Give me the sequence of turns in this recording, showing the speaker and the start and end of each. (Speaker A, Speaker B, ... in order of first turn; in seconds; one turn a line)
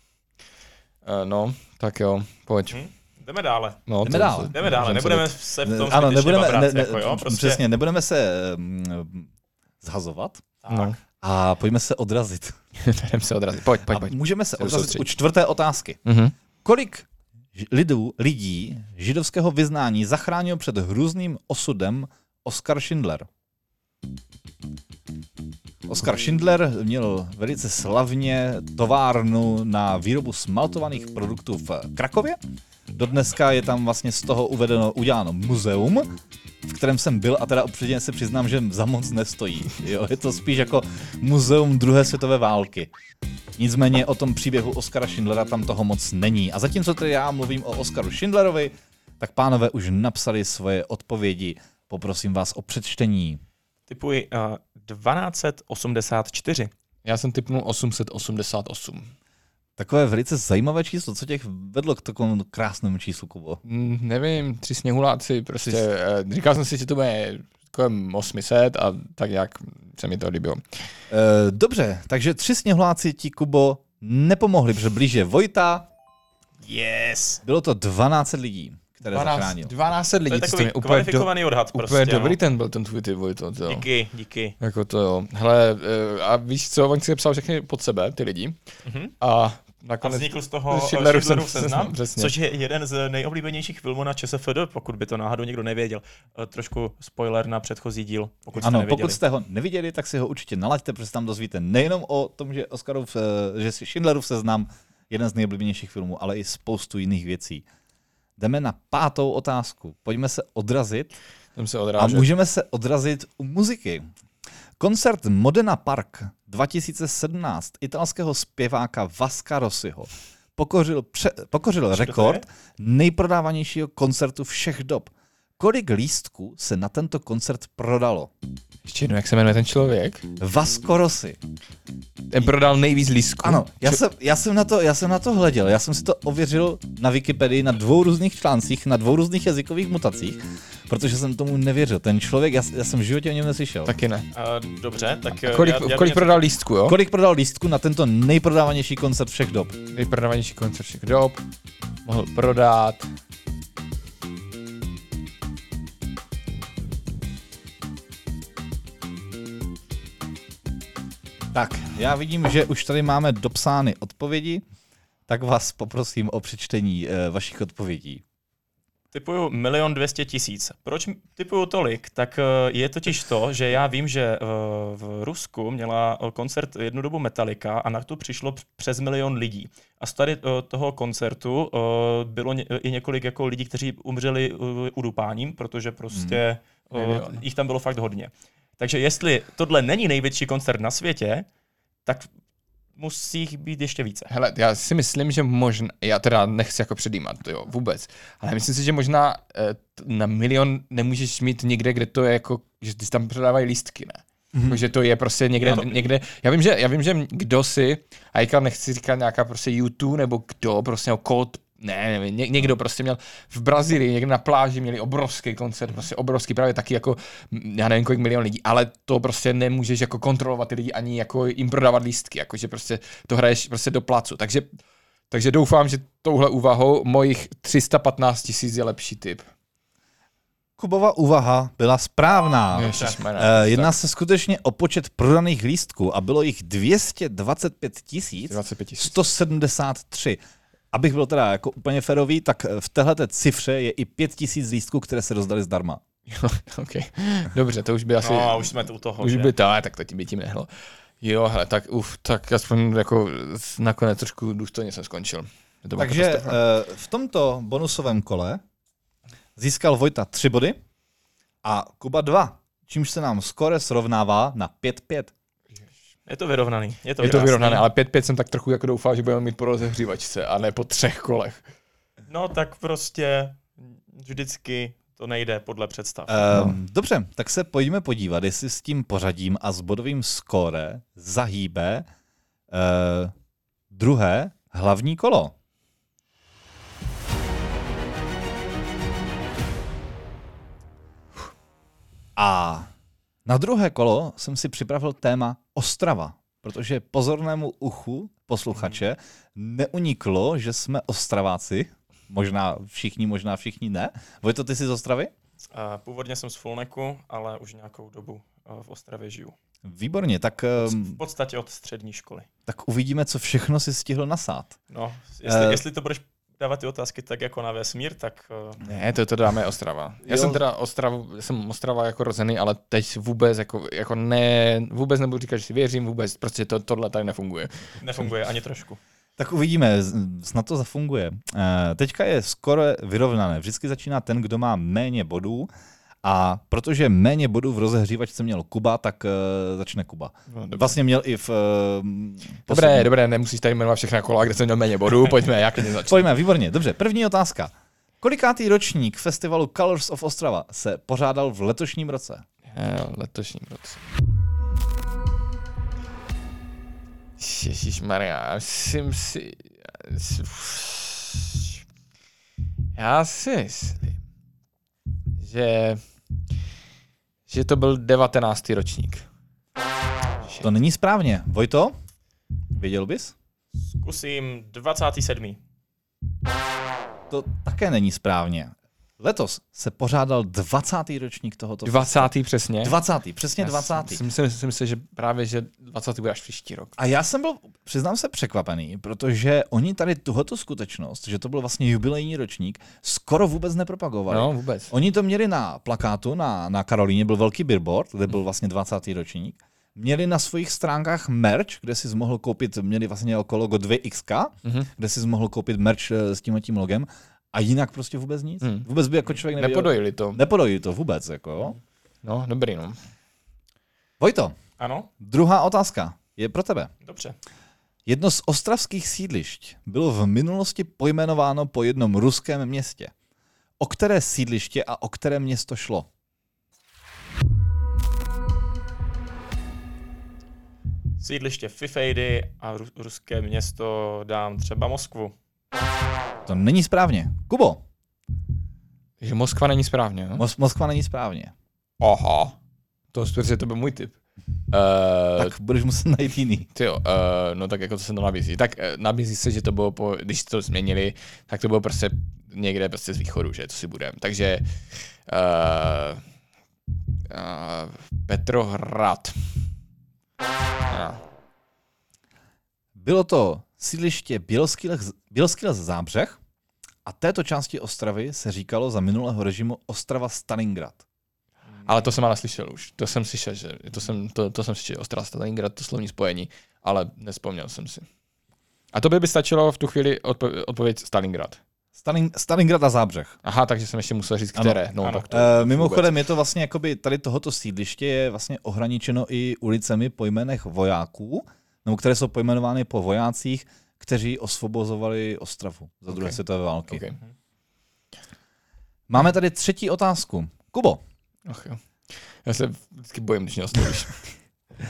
Speaker A: 1.1-2.8
Speaker B: 2.7-3.8
Speaker A: 3.9-5.3
Speaker C: 4.0-9.3
Speaker B: 4.5-7.6
Speaker C: 9.8-10.4
Speaker B: 10.6-10.9
Speaker A: 10.7-11.0
Speaker C: 11.2-12.6
Speaker A: 12.8-15.1
Speaker C: 13.8-16.0
Speaker A: 16.1-16.3
Speaker C: 16.6-23.3
Speaker C: 25.9-32.4
Speaker C: 33.0-36.1
Speaker C: 36.6-42.9
Speaker C: 43.6-53.4
Speaker B: 53.9-56.7
Speaker A: 57.0-59.1
Speaker C: 59.8-63.6
Speaker A: 63.6-70.6
Speaker C: 71.1-75.9
Speaker B: 76.6-77.4
Speaker C: 77.5-79.7
Speaker A: 79.1-83.9
Speaker B: 80.3-82.4
Speaker B: 83.7-84.6
Speaker A: 84.6-88.6
Speaker B: 88.9-89.1
Speaker A: 89.2-92.3
Speaker B: 90.0-99.2
Speaker C: 98.6-107.6
Speaker C: 108.4-111.1
Speaker A: 111.6-112.3
Speaker C: 112.0-114.1
Speaker C: 114.8-128.3
Speaker B: 121.9-122.4
Speaker A: 128.9-130.3
Speaker C: 130.4-131.4
Speaker A: 132.3-134.0
Speaker C: 133.4-143.9
Speaker A: 143.9-144.3
Speaker B: 144.3-146.5
Speaker A: 145.4-147.0
Speaker C: 146.9-149.8
Speaker A: 149.9-151.4
Speaker A: 152.1-153.1
Speaker C: 161.5-164.6
Speaker C: 165.3-168.2
Speaker B: 169.1-191.5
Speaker C: 186.1-186.4
Speaker A: 186.9-187.4
Speaker B: 193.0-194.3
Speaker A: 194.3-224.7
Speaker C: 204.5-204.8
Speaker B: 205.6-205.9
Speaker A: 225.3-229.5
Speaker C: 230.8-240.4
Speaker A: 232.7-233.9
Speaker B: 232.8-233.2
Speaker A: 238.5-239.2
Speaker C: 240.9-246.0
Speaker A: 246.3-250.7
Speaker B: 248.2-249.5
Speaker A: 251.2-256.6
Speaker C: 256.0-258.6
Speaker C: 259.6-260.8
Speaker C: 261.6-265.3
Speaker B: 266.3-267.9
Speaker A: 267.2-271.6
Speaker B: 272.3-276.6
Speaker C: 276.3-282.1
Speaker C: 282.7-283.3
Speaker C: 283.9-285.6
Speaker C: 292.4-292.9
Speaker C: 293.5-305.3
Speaker B: 305.7-309.6
Speaker C: 309.9-311.2
Speaker B: 310.8-312.5
Speaker C: 312.7-314.8
Speaker B: 314.9-318.8
Speaker C: 315.4-315.8
Speaker A: 318.8-327.9
Speaker C: 320.2-320.6
Speaker B: 328.0-329.0
Speaker C: 329.4-335.7
Speaker C: 336.2-343.1
Speaker A: 340.5-341.0
Speaker A: 342.7-346.3
Speaker C: 346.1-352.4
Speaker A: 352.7-354.0
Speaker A: 357.4-361.8
Speaker A: 362.9-364.1
Speaker A: 365.4-366.0
Speaker A: 367.5-369.2
Speaker A: 370.4-370.7
Speaker C: 370.6-371.9
Speaker C: 372.7-373.3
Speaker B: 373.8-375.6
Speaker C: 377.3-382.3
Speaker A: 381.9-383.0
Speaker C: 382.8-384.2
Speaker A: 383.6-387.0
Speaker C: 387.0-411.8
Speaker A: 394.3-394.9
Speaker A: 408.6-408.9
Speaker A: 409.5-410.4
Speaker A: 412.2-413.0
Speaker C: 414.2-414.6
Speaker B: 414.8-415.1
Speaker C: 415.2-416.9
Speaker B: 417.0-417.4
Speaker C: 418.1-423.1
Speaker C: 423.8-426.1
Speaker B: 431.2-435.4
Speaker C: 436.5-437.8
Speaker A: 439.2-440.4
Speaker C: 440.4-441.5
Speaker A: 442.0-442.6
Speaker A: 443.1-444.1
Speaker A: 444.7-445.5
Speaker C: 445.4-446.7
Speaker A: 446.7-454.7
Speaker A: 455.3-456.2
Speaker A: 457.3-459.4
Speaker A: 460.9-461.2
Speaker C: 462.9-466.4
Speaker C: 467.1-471.0
Speaker A: 471.9-478.1
Speaker A: 478.9-481.6
Speaker C: 482.0-483.4
Speaker A: 483.4-486.1
Speaker B: 485.0-485.3
Speaker C: 485.3-497.0
Speaker A: 496.1-496.4
Speaker A: 496.9-497.2
Speaker C: 499.1-501.0
Speaker A: 501.5-501.8
Speaker A: 502.4-504.3